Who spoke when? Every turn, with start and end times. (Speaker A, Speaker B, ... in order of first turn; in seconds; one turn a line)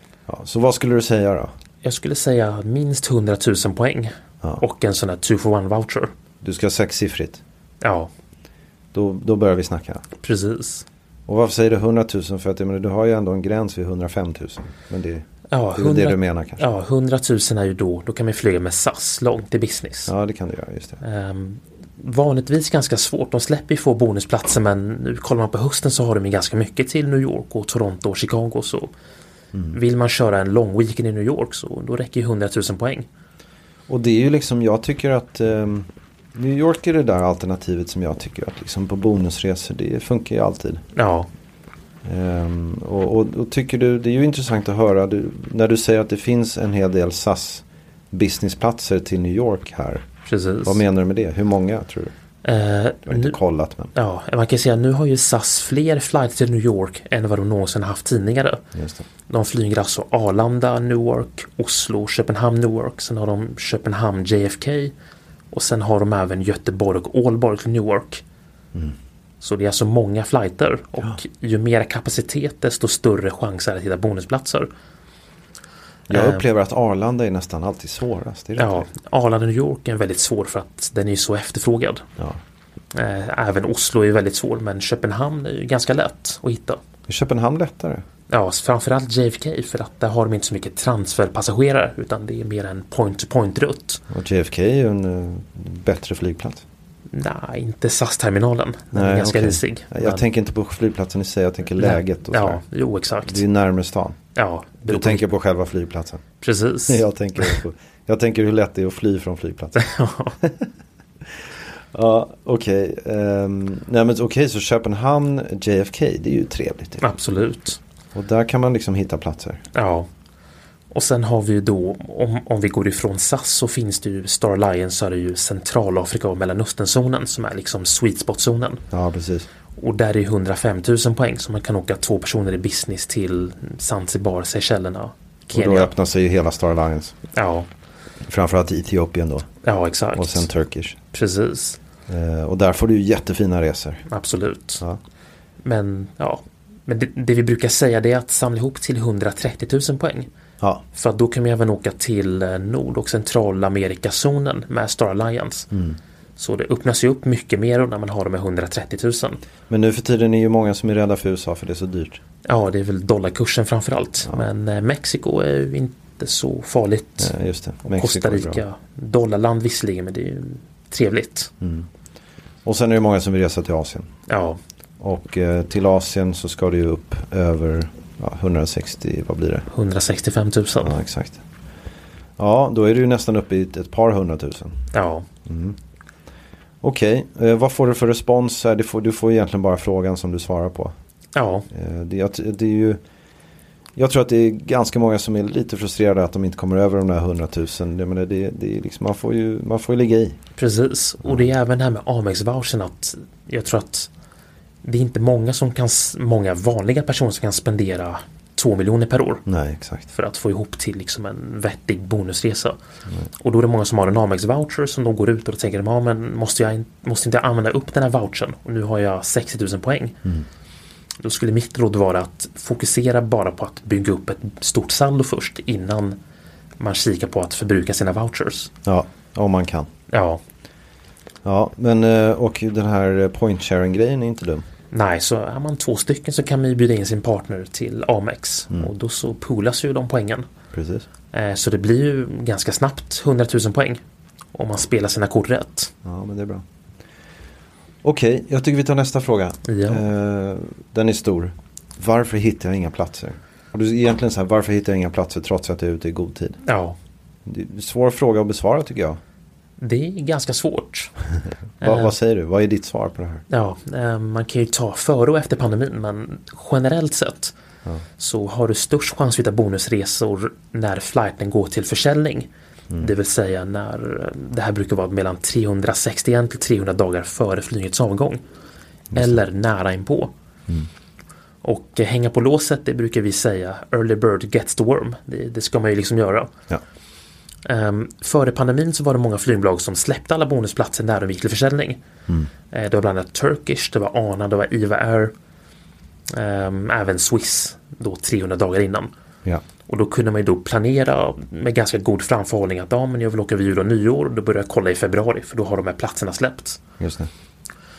Speaker A: 0.3-1.5
Speaker B: 1.8-6.1
Speaker A: 6.4-7.4
Speaker B: 7.8-8.1
Speaker A: 8.9-10.1
Speaker B: 10.2-10.8
Speaker A: 11.3-16.7
Speaker B: 15.5-20.1
Speaker A: 20.1-21.0
Speaker B: 21.0-28.9
Speaker B: 29.7-33.1
Speaker A: 33.9-40.8
Speaker B: 41.0-41.3
Speaker A: 42.0-50.1
Speaker B: 50.3-50.8
Speaker A: 50.6-52.1
Speaker B: 52.4-53.4
Speaker A: 53.1-53.9
Speaker B: 53.9-58.6
Speaker A: 58.7-59.1
Speaker B: 59.3-64.9
Speaker B: 65.5-68.2
Speaker B: 69.4-74.7
Speaker A: 76.1-78.9
Speaker B: 76.1-76.4
Speaker B: 78.6-82.0
Speaker B: 82.9-86.8
Speaker A: 87.1-88.0
Speaker B: 88.3-94.0
Speaker A: 94.1-96.6
Speaker B: 97.1-100.2
Speaker A: 98.9-102.6
Speaker B: 101.8-103.4
Speaker A: 103.2-104.2
Speaker B: 104.3-105.3
Speaker A: 104.8-106.2
Speaker B: 106.4-107.6
Speaker A: 106.9-109.8
Speaker B: 109.8-110.4
Speaker A: 110.4-110.7
Speaker A: 111.3-117.1
Speaker B: 117.0-117.8
Speaker A: 118.1-119.6
Speaker B: 119.8-120.1
Speaker B: 120.9-128.8
Speaker A: 128.9-129.5
Speaker B: 129.8-135.9
Speaker A: 135.5-137.2
Speaker B: 137.3-137.7
Speaker A: 138.2-139.5
Speaker B: 139.6-140.5
Speaker A: 140.1-141.0
Speaker B: 141.1-141.8
Speaker A: 142.1-144.0
Speaker B: 144.1-144.8
Speaker B: 145.6-150.3
Speaker B: 150.9-155.7
Speaker A: 155.7-156.0
Speaker B: 156.4-159.4
Speaker A: 159.7-162.2
Speaker B: 162.4-167.3
Speaker A: 167.2-168.6
Speaker B: 167.8-171.5
Speaker A: 171.6-171.9
Speaker A: 172.7-174.1
Speaker B: 174.3-174.6
Speaker A: 175.0-179.7
Speaker B: 179.7-181.0
Speaker A: 180.8-181.4
Speaker A: 182.4-184.8
Speaker B: 184.9-185.3
Speaker A: 185.5-185.8
Speaker A: 186.8-190.9
Speaker B: 191.3-191.7
Speaker A: 191.7-193.0
Speaker A: 193.9-200.4
Speaker B: 200.6-204.1
Speaker B: 204.8-209.4
Speaker A: 209.5-210.1
Speaker B: 210.1-212.8
Speaker B: 213.4-220.2
Speaker B: 221.2-226.2
Speaker B: 226.8-228.7
Speaker A: 228.8-229.9
Speaker B: 230.1-230.4
Speaker A: 231.4-234.7
Speaker B: 234.9-240.5
Speaker A: 240.7-241.1
Speaker B: 241.3-244.0
Speaker B: 244.5-245.9
Speaker A: 246.0-246.6
Speaker A: 248.0-256.6
Speaker B: 249.7-250.0
Speaker B: 256.6-257.0
Speaker A: 257.4-259.2
Speaker B: 259.8-261.1
Speaker A: 261.8-263.4
Speaker B: 261.8-262.1
Speaker B: 263.5-267.5
Speaker B: 268.2-272.5
Speaker B: 273.0-278.4
Speaker A: 279.1-279.4
Speaker B: 279.1-280.3
Speaker B: 281.6-286.5
Speaker B: 287.6-292.0
Speaker B: 292.7-295.3
Speaker B: 296.3-299.1
Speaker B: 299.9-306.8
Speaker A: 307.0-307.3